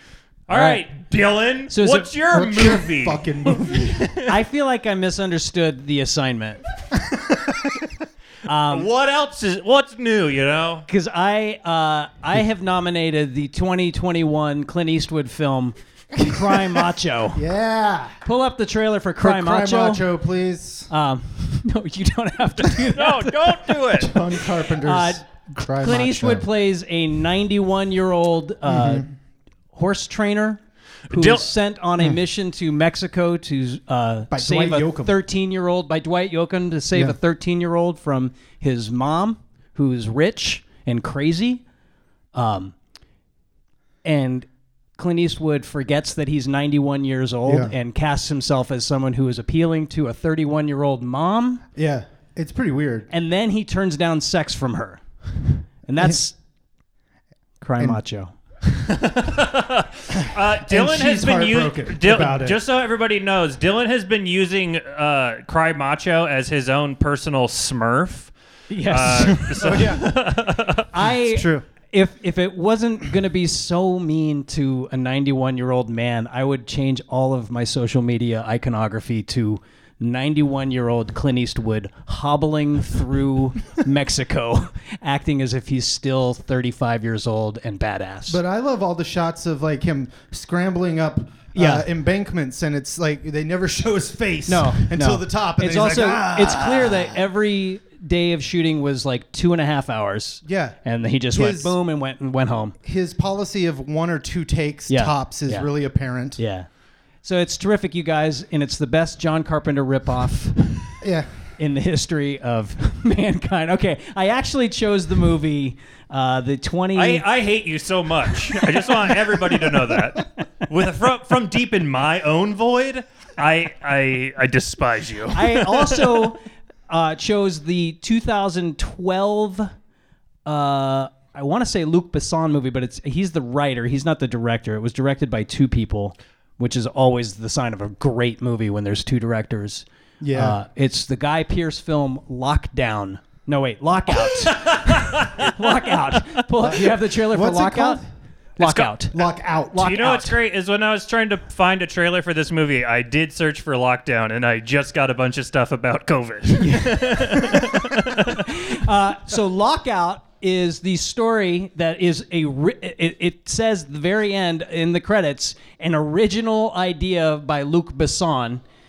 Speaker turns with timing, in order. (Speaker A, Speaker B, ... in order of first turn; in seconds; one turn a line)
Speaker A: 0.5-4.3
Speaker B: 0.5-0.8
Speaker B: 1.7-2.1
Speaker C: 2.3-4.1
Speaker B: 4.3-6.6
Speaker C: 7.0-7.7
Speaker B: 8.5-8.9
Speaker A: 8.7-10.9
Speaker B: 10.9-17.4
Speaker C: 17.4-18.2
Speaker B: 18.2-20.0
Speaker C: 19.2-20.9
Speaker B: 20.9-23.8
Speaker A: 22.9-24.2
Speaker C: 23.9-26.5
Speaker B: 24.7-29.1
Speaker C: 28.7-29.1
Speaker B: 29.7-41.6
Speaker A: 31.1-31.5
Speaker C: 34.3-35.2
Speaker B: 42.3-42.8
Speaker B: 44.0-51.6
Speaker C: 47.5-47.8
Speaker C: 51.8-53.1
Speaker B: 53.1-55.0
Speaker B: 55.8-56.4
Speaker B: 57.6-58.3
Speaker A: 58.7-68.3
Speaker C: 60.2-62.6
Speaker B: 68.7-70.0
Speaker A: 68.9-70.9
Speaker C: 69.5-70.0
Speaker B: 70.9-88.4
Speaker C: 71.3-71.7
Speaker C: 88.3-97.2
Speaker B: 91.5-91.9
Speaker B: 94.5-102.8
Speaker C: 100.5-100.8
Speaker C: 101.3-101.8
Speaker C: 102.8-106.4
Speaker B: 104.9-105.7
Speaker B: 106.4-106.7
Speaker B: 107.2-110.8
Speaker C: 111.0-111.3
Speaker B: 111.6-117.2
Speaker A: 117.0-126.3
Speaker B: 118.5-120.3
Speaker B: 125.3-126.4
Speaker B: 126.9-129.7
Speaker B: 130.5-148.0
Speaker C: 140.2-140.6
Speaker A: 144.2-146.2
Speaker C: 146.6-148.1
Speaker B: 148.6-149.2
Speaker A: 148.6-149.0
Speaker C: 149.1-149.9
Speaker B: 149.7-150.4
Speaker A: 149.8-158.6
Speaker B: 156.6-157.6
Speaker B: 158.2-168.6